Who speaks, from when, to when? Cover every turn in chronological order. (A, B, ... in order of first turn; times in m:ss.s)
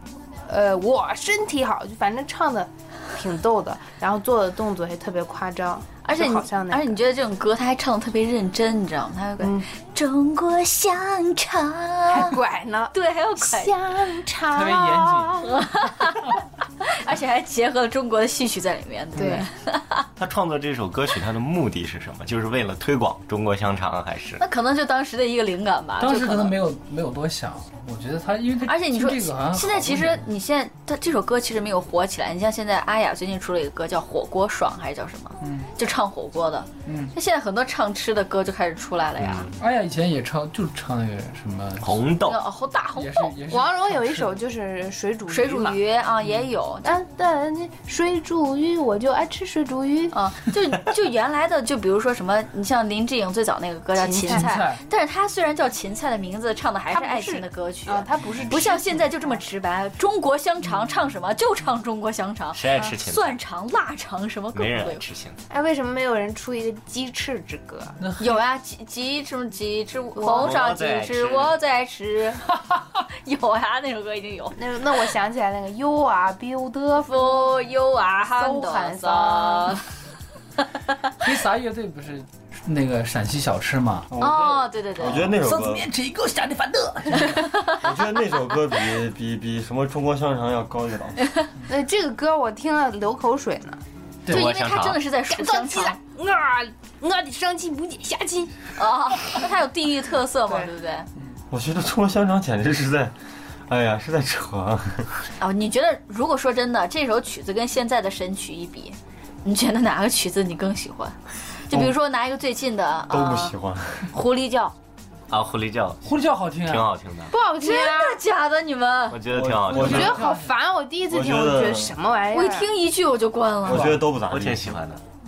0:00.5-0:07.0 A
0:06.0-0:12.4 B
0:09.4-0:09.7 A
0:12.1-0:15.4 A
0:12.9-0:13.7 B
0:14.5-0:15.4 C
0:15.4-0:20.0 B
0:19.2-0:19.5 A
0:20.2-0:24.4 D
0:24.4-0:26.6 B
0:26.0-0:30.3 C
0:28.7-0:39.5 B
0:35.4-0:35.7 C
0:36.9-0:37.1 C
0:39.4-0:41.9 C
0:41.8-0:42.4 D
0:42.3-0:43.3 B
0:43.0-0:44.3 C
0:43.5-0:45.8 A
0:45.3-0:47.0 B
0:46.2-0:46.5 C
0:46.8-0:50.1 A
0:50.1-1:05.0 B
0:54.0-0:54.5 A
0:54.3-0:54.8 C
0:56.9-0:59.4 A
1:02.5-1:03.4 D
1:04.5-1:05.4 D
1:05.5-1:08.0 A
1:08.0-1:08.4 C
1:08.2-1:12.5 B
1:10.2-1:10.6 A
1:10.3-1:11.6 D
1:13.2-1:14.6 B
1:14.6-1:17.5 A
1:17.1-1:19.8 B
1:18.3-1:19.8 A
1:21.2-1:24.1 C
1:24.1-1:25.9 E
1:24.2-1:25.3 B
1:25.4-1:27.6 C
1:27.2-1:27.8 B
1:27.8-1:31.2 E
1:31.7-1:33.8 A
1:34.3-1:35.0 D
1:34.3-1:36.0 B
1:35.3-1:38.6 A
1:38.8-1:41.1 B
1:41.5-1:43.1 E
1:43.7-1:45.1 E
1:45.4-1:53.5 B
1:53.1-1:54.1 E
1:54.1-1:54.8 B
1:55.3-1:57.3 D
1:56.0-1:56.9 C
1:57.3-1:58.2 A
1:57.6-1:59.2 B
1:59.1-2:00.2 D
1:59.3-2:00.2 E
1:59.7-2:00.5 C
1:59.8-2:02.7 A
2:01.1-2:02.0 E
2:02.3-2:03.9 B
2:03.7-2:04.8 E
2:03.7-2:04.0 C
2:04.2-2:05.0 D